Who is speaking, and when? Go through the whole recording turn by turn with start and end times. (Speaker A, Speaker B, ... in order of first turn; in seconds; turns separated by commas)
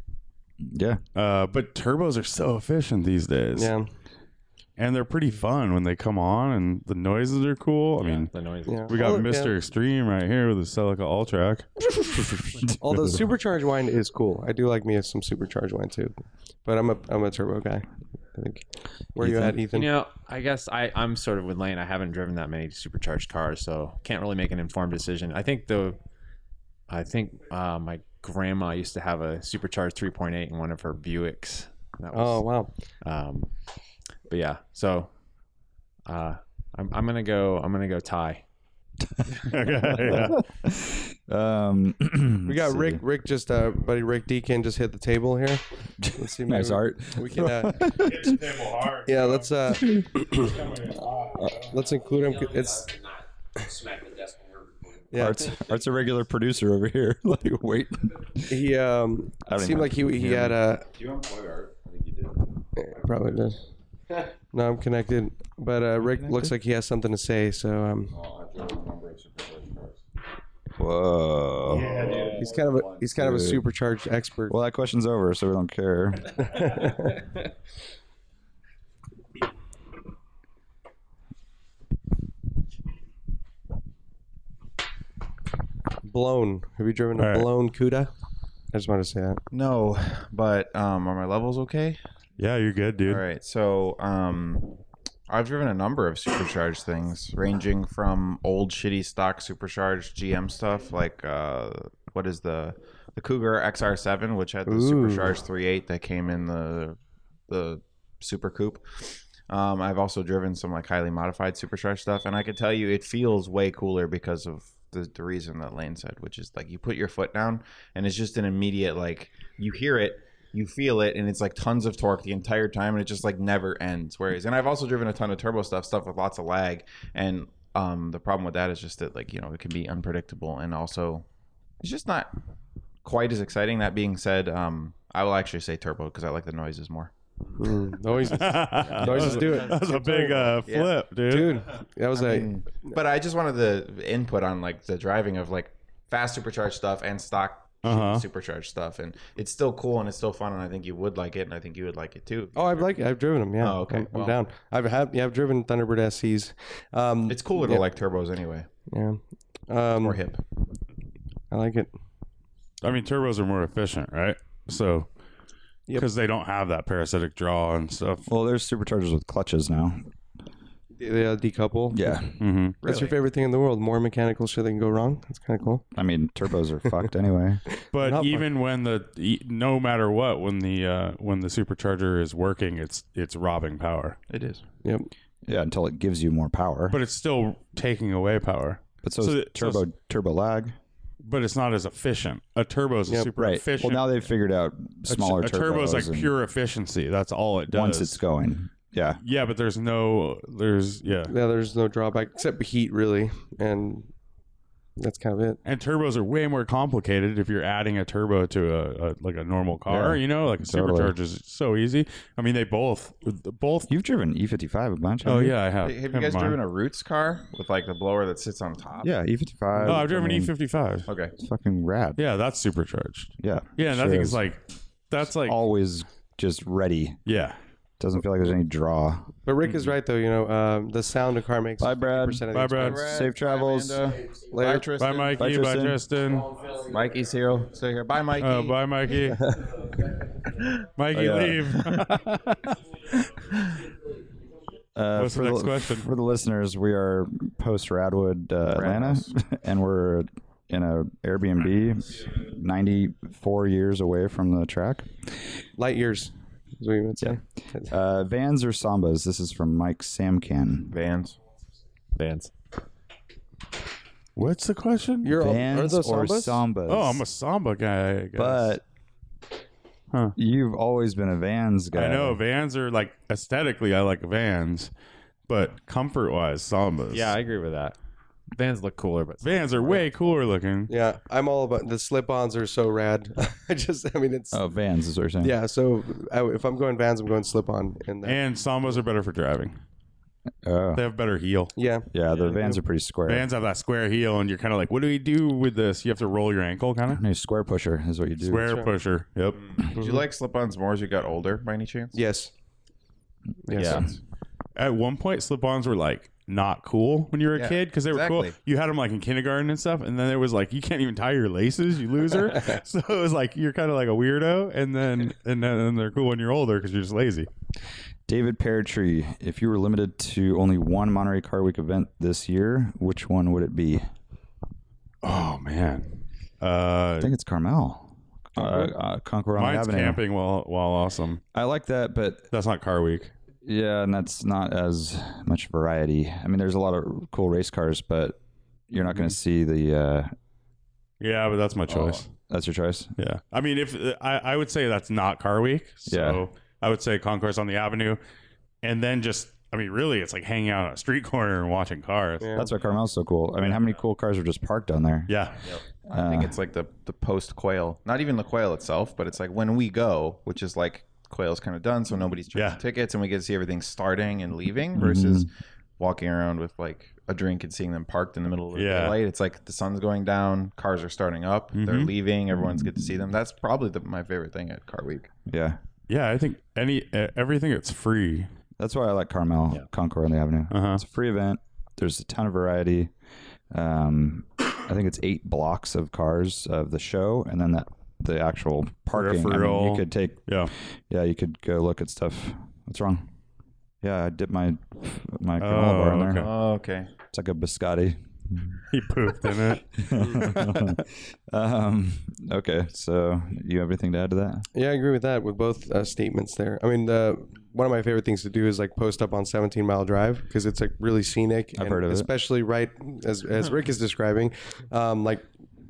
Speaker A: 0.6-1.0, Speaker B: 1.1-3.7, Speaker C: 3.5-3.9, Speaker B: 4.8-8.3, Speaker D: 8.0-9.1, Speaker C: 8.7-9.5, Speaker B: 8.9-11.7, Speaker A: 12.0-13.2, Speaker C: 12.8-18.6, Speaker C: 19.1-19.9, Speaker A: 19.2-19.6, Speaker D: 19.7-26.0, Speaker D: 26.9-32.5, Speaker C: 32.1-32.7, Speaker D: 33.0-33.5, Speaker D: 34.3-35.1, Speaker D: 36.1-38.4, Speaker A: 39.1-43.0, Speaker B: 39.4-40.4, Speaker C: 42.5-45.6, Speaker A: 46.0-48.4, Speaker C: 46.1-47.9, Speaker B: 48.0-49.8, Speaker C: 49.0-50.5, Speaker B: 50.3-51.4, Speaker C: 51.5-52.9, Speaker C: 55.1-55.5, Speaker A: 55.1-58.6, Speaker C: 58.5-60.9, Speaker A: 59.5-60.6, Speaker E: 60.9-62.5, Speaker C: 62.8-63.6, Speaker C: 64.5-68.1, Speaker A: 66.1-66.5, Speaker E: 68.1-70.0, Speaker A: 70.8-72.1, Speaker E: 71.7-73.0, Speaker C: 72.3-74.5, Speaker A: 73.1-73.6, Speaker A: 74.5-76.8, Speaker C: 76.4-77.2, Speaker C: 86.0-88.1, Speaker B: 87.2-87.5, Speaker C: 88.7-89.4, Speaker E: 89.5-92.0, Speaker B: 92.4-93.2, Speaker E: 93.0-108.8, Speaker C: 104.7-105.3, Speaker E: 109.5-131.2, Speaker E: 131.8-132.3, Speaker E: 133.0-137.1, Speaker C: 137.6-140.6, Speaker B: 138.2-141.6, Speaker D: 138.8-139.4, Speaker E: 140.7-140.9, Speaker C: 141.3-142.9, Speaker E: 142.1-152.9, Speaker B: 147.8-148.2, Speaker C: 152.6-157.8, Speaker E: 153.6-154.4, Speaker E: 157.3-158.7, Speaker C: 158.9-160.2, Speaker E: 160.0-160.4, Speaker C: 161.5-161.9, Speaker B: 162.8-165.1, Speaker B: 165.9-168.3, Speaker A: 168.3-170.1, Speaker C: 171.0-175.8, Speaker A: 171.9-172.4, Speaker B: 172.4-172.8, Speaker E: 172.8-173.1, Speaker A: 175.9-177.6, Speaker B: 177.9-184.2, Speaker C: 177.9-178.4, Speaker E: 184.3-184.6, Speaker C: 184.8-185.1, Speaker A: 185.4-187.0, Speaker B: 186.9-189.8, Speaker A: 189.0-190.8, Speaker B: 191.2-194.1, Speaker A: 193.3-196.3, Speaker B: 195.1-198.2, Speaker A: 197.7-199.2, Speaker B: 199.2-201.3, Speaker C: 201.3-204.1, Speaker C: 205.0-205.6, Speaker B: 205.6-213.9, Speaker A: 209.9-211.1, Speaker A: 213.9-215.6, Speaker B: 215.2-216.6, Speaker E: 215.8-219.1, Speaker A: 219.0-220.5, Speaker B: 219.8-221.1, Speaker E: 221.1-221.3, Speaker A: 221.4-222.2, Speaker B: 222.2-225.6, Speaker A: 223.4-224.4, Speaker A: 225.3-227.2, Speaker B: 227.3-227.6, Speaker A: 228.0-229.3, Speaker C: 229.4-233.2, Speaker A: 231.8-232.5, Speaker B: 232.5-233.0, Speaker E: 232.8-235.4, Speaker A: 233.0-234.1, Speaker C: 234.5-234.9, Speaker B: 235.0-236.5, Speaker A: 235.3-236.0, Speaker E: 236.6-238.8, Speaker B: 238.4-239.5, Speaker C: 239.3-239.8, Speaker B: 240.9-242.8, Speaker A: 241.1-242.2, Speaker A: 244.9-255.1, Speaker B: 245.1-246.1, Speaker E: 248.7-249.3, Speaker C: 255.8-257.9, Speaker A: 257.2-260.9, Speaker E: 260.9-261.4, Speaker D: 262.1-262.5, Speaker B: 264.4-265.4, Speaker C: 265.2-266.6, Speaker A: 265.3-267.2, Speaker B: 266.9-268.7, Speaker A: 268.3-268.8, Speaker A: 270.4-272.4, Speaker B: 271.9-274.9, Speaker B: 275.5-277.4, Speaker D: 277.1-277.9, Speaker D: 278.5-280.1, Speaker B: 279.4-280.9, Speaker C: 280.9-284.6, Speaker A: 284.5-285.5, Speaker C: 285.4-288.4, Speaker B: 288.2-289.8, Speaker A: 290.6-291.0, Speaker B: 290.9-291.7, Speaker C: 291.8-292.8, Speaker A: 292.1-293.5, Speaker B: 293.2-297.2, Speaker A: 297.1-298.8, Speaker B: 298.4-299.6, Speaker E: 299.9-302.1, Speaker C: 300.0-300.2, Speaker C: 302.1-302.5, Speaker C: 303.7-304.1, Speaker E: 303.7-304.2, Speaker B: 304.8-317.5, Speaker E: 307.5-308.6, Speaker A: 318.3-324.1, Speaker B: 325.2-327.3, Speaker A: 327.2-330.2, Speaker C: 328.6-328.9, Speaker B: 329.6-331.4, Speaker A: 331.5-332.5, Speaker B: 332.5-333.3, Speaker A: 333.6-338.4, Speaker A: 338.9-340.3, Speaker B: 341.2-342.3, Speaker E: 341.9-342.2, Speaker A: 342.5-343.1, Speaker B: 343.2-348.2, Speaker A: 346.1-346.4, Speaker B: 348.8-352.5, Speaker C: 352.4-352.7, Speaker A: 352.5-355.4, Speaker B: 355.3-355.6, Speaker E: 356.1-375.3, Speaker A: 356.1-356.5, Speaker B: 362.5-362.8, Speaker A: 364.9-365.5, Speaker B: 368.7-369.2, Speaker B: 371.7-372.1, Speaker A: 372.6-373.1, Speaker A: 375.5-375.8, Speaker B: 376.1-378.5, Speaker A: 378.8-383.1, Speaker B: 380.7-381.0, Speaker A: 383.7-393.3, Speaker B: 389.1-390.7, Speaker A: 394.0-396.5, Speaker B: 395.6-396.6, Speaker E: 396.4-397.1, Speaker A: 397.3-398.8, Speaker B: 398.9-400.9, Speaker A: 400.0-404.7, Speaker C: 404.7-415.4, Speaker A: 411.7-412.3